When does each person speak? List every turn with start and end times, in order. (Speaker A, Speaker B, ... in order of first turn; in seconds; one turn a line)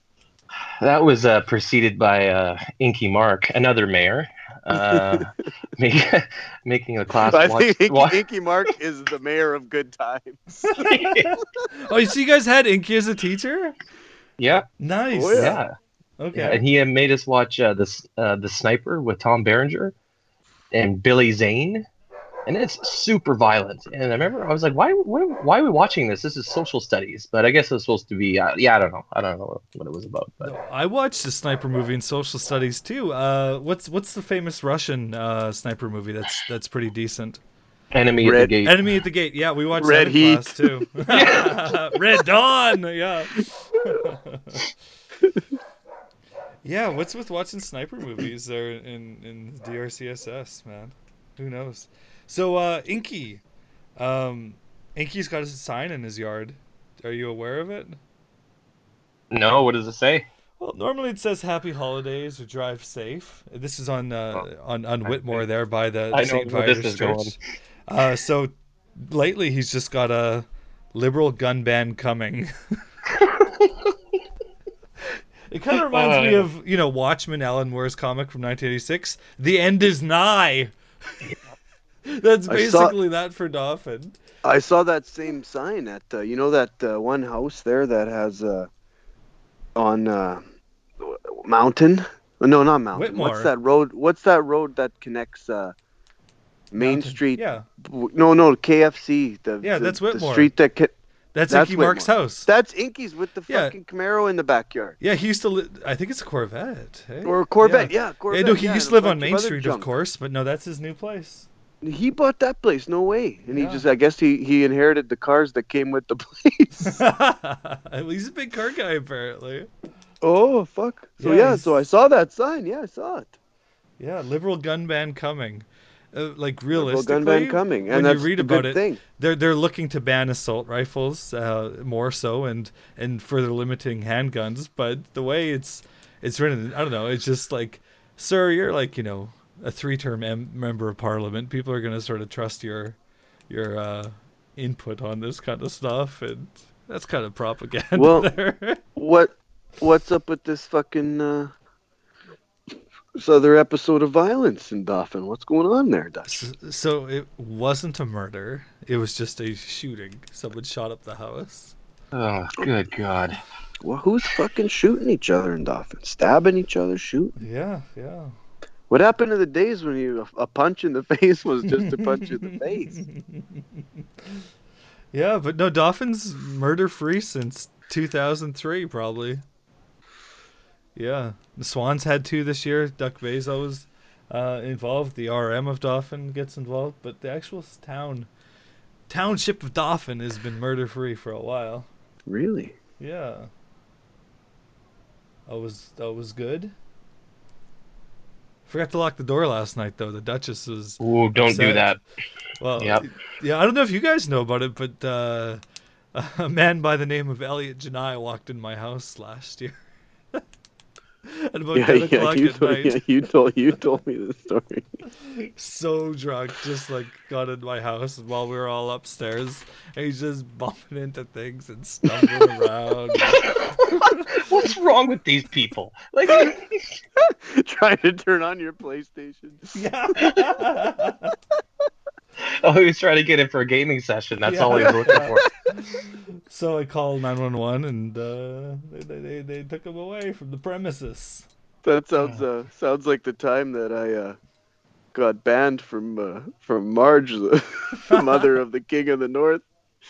Speaker A: 0.8-8.2
Speaker B: 4.7-5.3
Speaker B: 7.2-10.8
Speaker C: 10.7-13.7
Speaker A: 10.8-11.4
Speaker A: 14.4-14.7
Speaker C: 14.8-15.6
Speaker B: 15.1-15.6
Speaker A: 15.3-15.7
Speaker C: 16.2-16.6
Speaker A: 16.4-19.9
Speaker A: 20.7-21.9
Speaker A: 22.5-30.5
Speaker C: 30.4-37.4
Speaker A: 37.9-38.9
Speaker B: 38.2-38.5
Speaker C: 38.6-44.7
Speaker B: 39.8-40.8
Speaker A: 41.1-41.8
Speaker C: 46.6-53.4
Speaker C: 54.0-58.0
Speaker A: 59.3-60.3
Speaker C: 60.6-67.3
Speaker A: 66.1-67.3
Speaker C: 67.9-72.5
Speaker A: 73.2-73.7
Speaker C: 75.5-81.2
Speaker A: 75.8-76.5
Speaker C: 82.1-84.2
Speaker B: 82.5-83.0
Speaker B: 84.4-88.7
Speaker B: 89.8-90.4
Speaker B: 91.0-95.8
Speaker C: 93.0-93.5
Speaker B: 96.7-100.9
Speaker C: 96.8-97.7
Speaker C: 99.6-100.5
Speaker C: 101.3-102.5
Speaker B: 101.5-105.0
Speaker C: 103.5-103.8
Speaker C: 105.0-111.5
Speaker B: 107.2-109.9
Speaker B: 111.8-117.0
Speaker C: 113.5-113.9
Speaker C: 116.8-119.7
Speaker B: 120.2-123.4
Speaker C: 121.2-121.7
Speaker C: 124.0-143.0
Speaker B: 126.7-129.0
Speaker C: 143.5-148.8
Speaker B: 148.0-148.3
Speaker B: 148.9-151.5
Speaker B: 153.2-156.4
Speaker C: 156.3-161.8
Speaker A: 162.1-163.4
Speaker B: 163.8-167.4
Speaker C: 167.4-168.3
Speaker B: 168.9-173.0
Speaker C: 171.7-173.8
Speaker C: 175.1-179.4
Speaker C: 181.0-188.3
Speaker C: 189.1-191.9
Speaker B: 192.3-192.8
Speaker C: 193.0-193.5
Speaker C: 195.5-196.7
Speaker C: 198.7-201.9
Speaker A: 201.0-202.0
Speaker C: 202.6-205.6
Speaker A: 202.8-203.0
Speaker C: 206.1-209.8
Speaker C: 211.3-213.0
Speaker B: 211.7-214.9
Speaker C: 215.2-224.5
Speaker A: 223.3-227.0
Speaker B: 227.2-229.7
Speaker C: 229.7-231.3
Speaker A: 232.4-235.5
Speaker C: 234.4-241.5
Speaker B: 234.7-235.5
Speaker B: 241.8-244.4
Speaker B: 245.1-249.6
Speaker C: 248.1-248.5